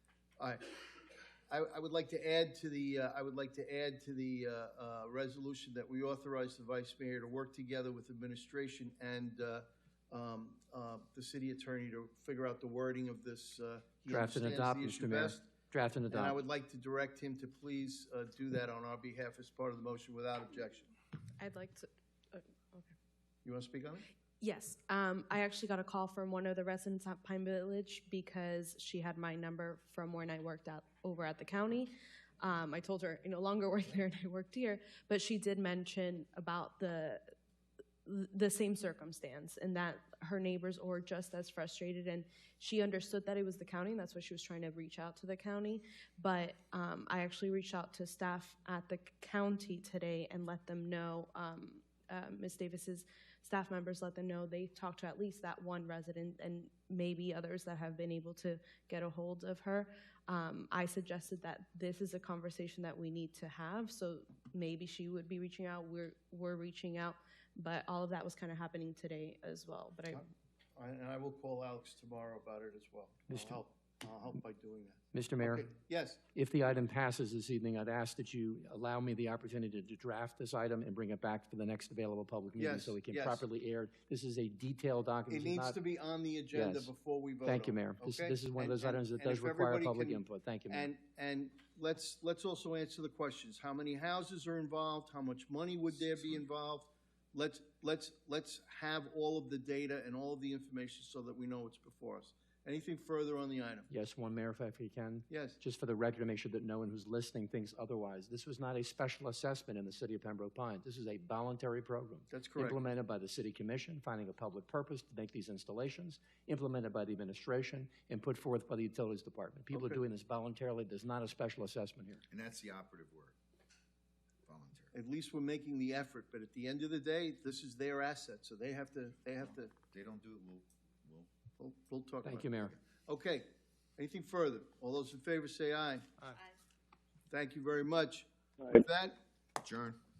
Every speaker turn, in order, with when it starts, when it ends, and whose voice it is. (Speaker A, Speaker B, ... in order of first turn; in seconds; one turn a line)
Speaker A: 0.4-0.8
Speaker A: 1.5-15.4
Speaker B: 14.1-16.4
Speaker A: 16.1-20.9
Speaker C: 21.4-22.9
Speaker A: 23.4-24.1
Speaker C: 24.4-37.2
Speaker C: 38.0-70.2
Speaker A: 70.1-76.2
Speaker B: 73.3-73.6
Speaker B: 75.1-75.7
Speaker B: 76.3-85.8
Speaker A: 82.6-83.5
Speaker A: 85.3-103.9
Speaker B: 86.5-86.9
Speaker B: 87.5-90.9
Speaker B: 103.9-122.2
Speaker A: 105.3-105.6
Speaker A: 112.3-112.8
Speaker A: 119.7-120.0
Speaker D: 122.3-123.4
Speaker D: 124.5-124.9
Speaker A: 124.9-129.7
Speaker D: 129.8-131.3
Speaker A: 131.6-136.1
Speaker B: 132.2-132.8
Speaker A: 137.3-139.2
Speaker D: 139.6-140.0